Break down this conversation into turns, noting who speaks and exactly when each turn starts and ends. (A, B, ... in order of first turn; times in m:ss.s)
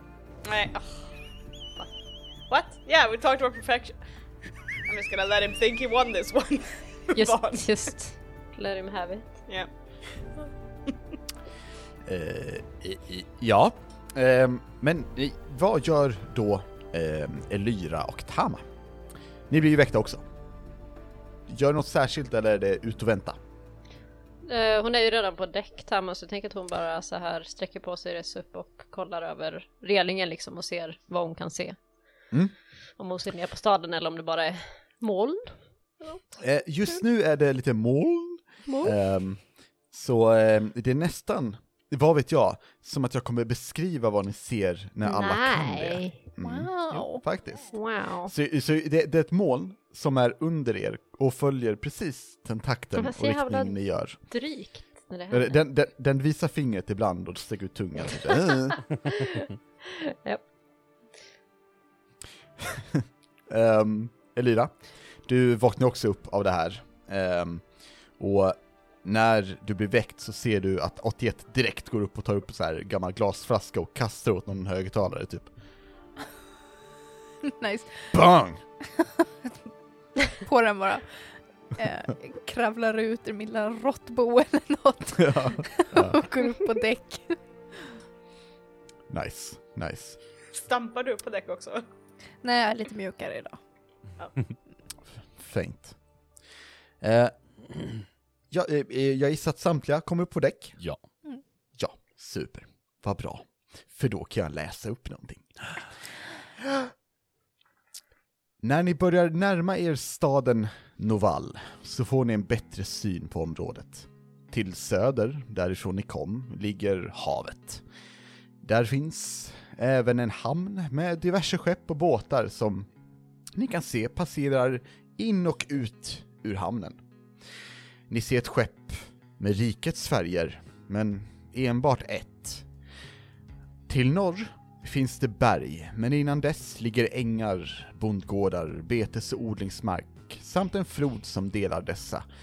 0:00.4-0:01.0 A
0:02.5-0:04.0 A
0:04.9-0:07.7 A
0:07.1-0:09.2 B
0:12.1-0:18.6 C
0:19.5-0:20.2 C
0:21.5-0:23.4 C
0:24.5-0:31.8 B
0:33.0-0:36.2 B
0:36.4-0:39.4 C
0:39.9-0:47.8 C
0:45.0-0:46.2 B
0:46.4-0:47.2 D
0:47.7-0:48.3 B
0:48.3-0:54.2 C
0:53.0-0:55.6 B
0:55.3-0:58.8 C
0:59.1-1:00.4 B
1:02.7-1:04.7 C
1:05.3-1:07.6 C
1:08.2-1:15.5 C
1:17.4-1:18.1 D
1:18.1-1:18.6 C
1:19.0-1:19.3 D
1:20.3-1:21.1 D
1:21.8-1:27.4 D
1:25.2-1:26.2 C
1:29.1-1:30.2 C
1:30.5-1:31.8 A
1:32.4-1:33.6 D
1:35.4-1:36.0 C
1:37.0-1:37.3 C
1:38.5-1:40.8 C
1:41.8-1:45.5 C
1:48.6-1:57.8 C
1:58.6-2:02.9 C
2:03.6-2:07.0 C
2:08.1-2:12.6 C
2:13.9-2:22.2 C